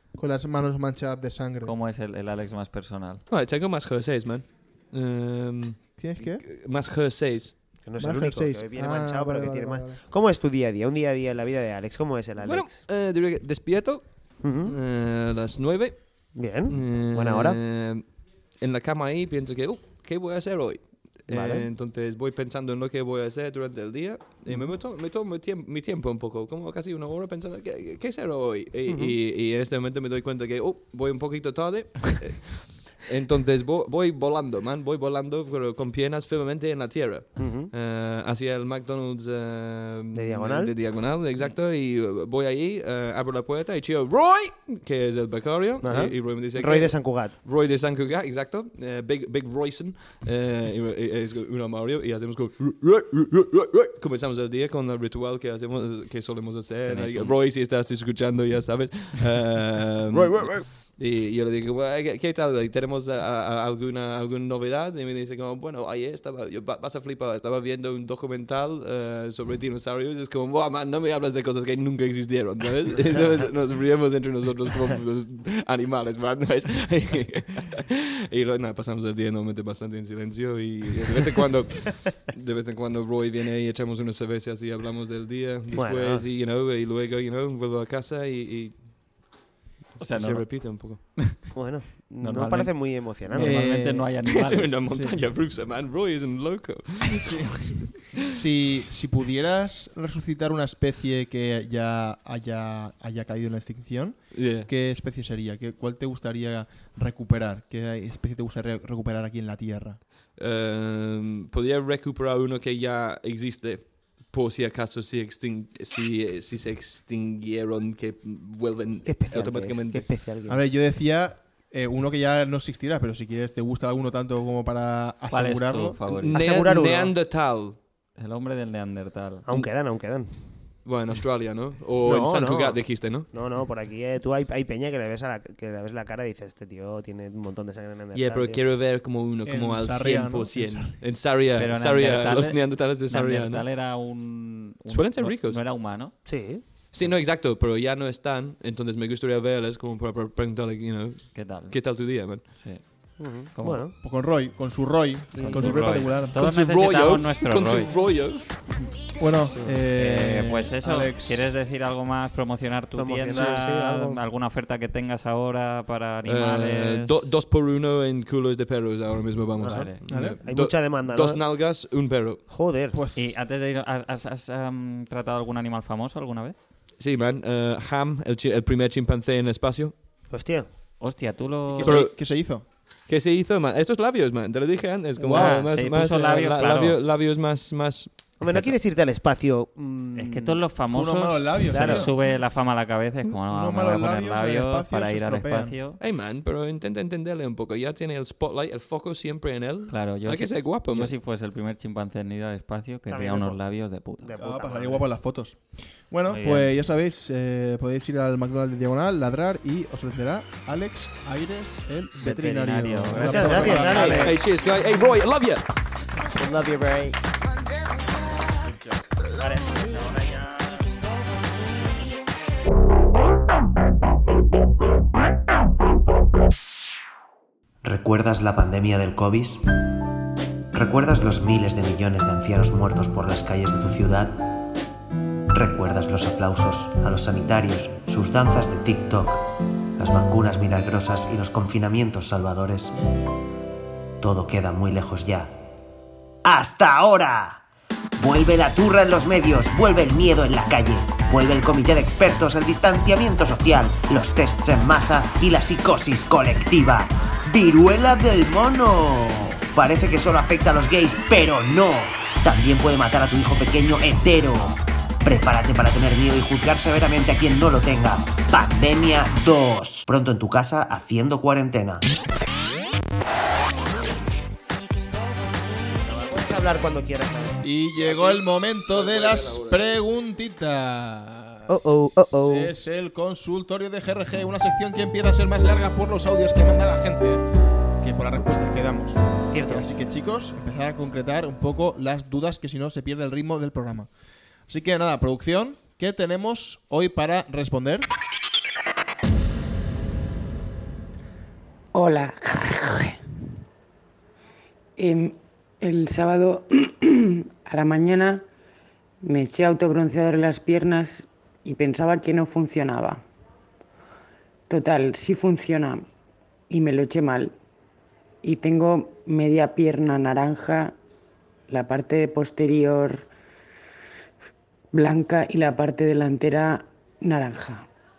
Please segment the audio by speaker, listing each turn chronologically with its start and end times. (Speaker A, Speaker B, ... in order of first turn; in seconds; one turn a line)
Speaker A: 0.1-1.7
Speaker B: 1.6-3.2
Speaker C: 3.3-7.8
Speaker A: 6.0-6.4
Speaker D: 7.8-12.8
Speaker A: 8.0-10.0
Speaker C: 12.4-88.9
Speaker D: 14.4-14.7
Speaker D: 16.3-17.6
Speaker D: 21.3-21.7
Speaker D: 28.9-29.1
Speaker D: 37.4-37.7
Speaker D: 40.1-40.7
Speaker D: 45.8-47.4
Speaker B: 56.9-57.4
Speaker D: 85.7-86.2
Speaker B: 90.0-91.5
Speaker C: 90.1-91.0
Speaker D: 91.5-93.7
Speaker B: 92.2-95.0
Speaker A: 93.3-94.1
Speaker C: 94.2-98.3
Speaker A: 94.9-95.2
Speaker A: 97.1-110.0
Speaker C: 104.3-104.7
Speaker C: 110.4-120.1
Speaker D: 119.0-120.6
Speaker A: 120.5-126.0
Speaker B: 125.3-126.4
Speaker C: 126.0-127.8
Speaker D: 126.3-127.1
Speaker B: 128.2-129.5
Speaker D: 129.4-130.4
Speaker C: 130.8-133.2
Speaker D: 132.0-138.6
Speaker C: 138.1-143.6
Speaker A: 139.4-140.9
Speaker B: 141.6-146.2
Speaker C: 144.9-145.6
Speaker D: 146.2-146.6
Speaker C: 146.9-152.4
Speaker B: 151.3-151.8
Speaker B: 152.6-152.8
Speaker D: 153.2-153.9
Speaker B: 153.5-153.8
Speaker A: 154.0-156.5
Speaker D: 155.3-155.8
Speaker B: 155.4-157.9
Speaker C: 155.7-158.5
Speaker A: 158.8-161.4
Speaker B: 159.9-167.2
Speaker D: 162.9-164.2
Speaker C: 166.2-172.4
Speaker D: 169.6-171.4
Speaker B: 169.6-170.4
Speaker A: 170.1-170.4
Speaker D: 172.5-173.0
Speaker A: 172.9-173.3
Speaker B: 173.1-176.6
Speaker C: 177.0-179.9
Speaker D: 180.3-180.7
Speaker B: 181.0-182.0
Speaker A: 181.7-182.6
Speaker C: 181.8-182.1
Speaker C: 183.1-188.3
Speaker B: 185.2-186.9
Speaker A: 185.2-185.6
Speaker D: 188.4-190.6
Speaker B: 188.4-188.7
Speaker B: 190.2-196.0
Speaker A: 190.9-192.1
Speaker D: 191.7-192.1
Speaker A: 193.3-195.8
Speaker C: 196.0-201.1
Speaker B: 199.9-204.3
Speaker D: 203.1-203.6
Speaker D: 204.2-205.1
Speaker A: 204.3-214.4
Speaker B: 206.3-206.7
Speaker B: 212.2-214.3
Speaker D: 213.2-214.3
Speaker C: 214.2-215.6
Speaker D: 216.3-217.2
Speaker B: 218.6-220.9
Speaker E: 227.8-229.9
Speaker E: 230.7-234.6
Speaker E: 235.5-242.9
Speaker E: 244.2-245.5
Speaker E: 246.4-247.6
Speaker E: 248.2-272.0
Speaker D: 276.0-278.4
Speaker A: 277.6-281.8
Speaker C: 278.9-279.9
Speaker D: 281.7-282.7
Speaker A: 282.4-287.4
Speaker A: 288.0-294.1
Speaker D: 289.5-289.9
Speaker A: 294.7-298.1
Speaker F: 301.9-303.2
Speaker F: 305.0-308.4
Speaker F: 309.2-313.2
Speaker F: 314.7-316.1
Speaker F: 316.7-317.5
Speaker F: 318.4-321.0
Speaker F: 321.7-323.3
Speaker F: 324.9-327.9